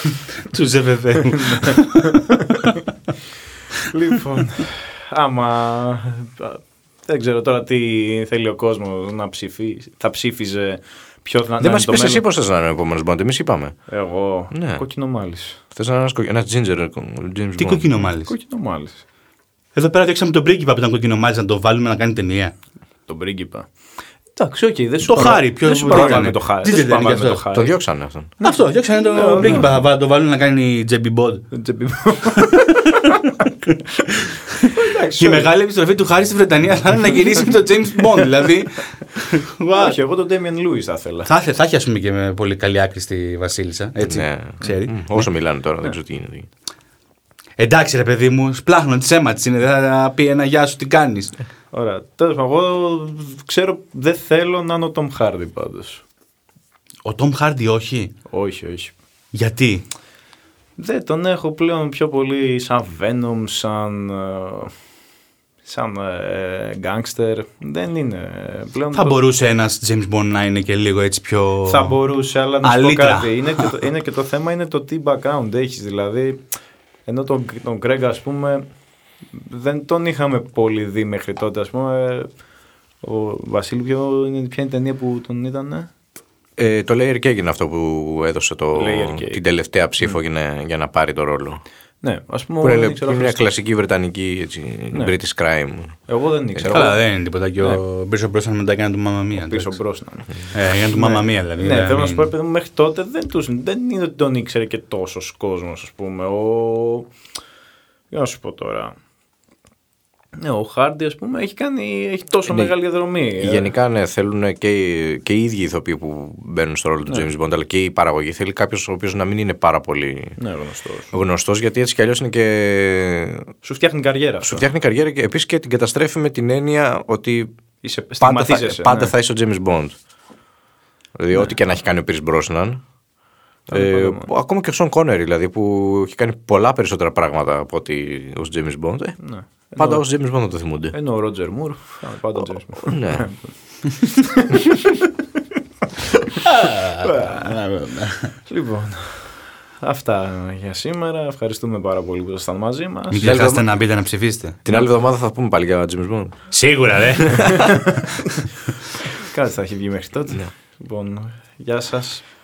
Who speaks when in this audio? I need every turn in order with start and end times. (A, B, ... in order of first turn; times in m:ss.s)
0:00.4-0:02.8 A
0:01.4-0:02.6 B
0:03.9-0:12.2 B
0:11.6-0:13.8 C
0:13.9-0:15.6 B
0:14.5-0:14.8 C
0:15.7-0:17.9 C
0:17.6-0:18.3 A
0:18.3-0:19.0 B
0:19.8-0:22.5 A
0:23.1-0:23.7 B
0:24.4-0:27.8 B
0:25.0-0:27.4 A
0:25.9-0:26.3 C
0:27.5-0:28.3 C
0:28.4-0:29.8 B
0:28.4-0:31.5 A
0:29.4-0:29.7 C
0:31.5-0:33.1 B
0:34.6-0:35.5 B
0:35.2-0:40.0 A
0:39.7-0:41.3 B
0:41.3-0:45.2 A
0:44.0-0:46.5 C
0:47.6-0:51.4 A
0:51.7-0:56.0 B
0:57.0-0:58.1 A
0:58.3-0:59.0 B
0:59.3-0:59.8 A
1:00.8-1:04.7 B
1:05.6-1:09.2 B
1:08.9-1:12.0 A
1:11.6-1:16.4 B
1:12.6-1:13.7 A
1:17.1-1:18.6 B
1:19.3-1:22.4 B
1:23.0-1:25.9 B
1:26.6-1:31.6 C
1:28.7-1:29.4 B
1:32.0-1:33.5 B
1:32.6-1:36.0 C
1:36.1-1:37.0 B
1:36.7-1:39.8 A
1:39.4-1:40.4 B
1:40.5-1:42.3 A
1:40.9-1:47.1 B
1:48.1-1:49.0 B
1:50.4-1:53.7 B
1:52.5-1:52.8 C
1:53.4-2:00.4 C
2:00.4-2:01.1 B
2:01.1-2:03.5 C
2:03.6-2:04.7 B
2:04.4-2:07.5 C
2:07.8-2:09.1 B
2:08.2-2:10.0 C
2:11.2-2:12.8 C
2:13.7-2:19.2 C
2:13.7-2:14.3 B
2:19.2-2:20.1 B
2:19.8-2:21.0 C
2:20.9-2:23.4 B
2:22.8-2:23.3 C
2:24.0-2:24.7 B
2:26.1-2:26.4 B
2:26.4-2:28.4 A
2:27.0-2:27.6 B
2:28.5-2:33.3 B
2:33.1-2:34.6 A
2:33.2-2:33.7 C
2:34.6-2:36.5 C
2:36.5-2:38.0 A
2:37.4-2:38.4 B
2:39.2-2:42.2 B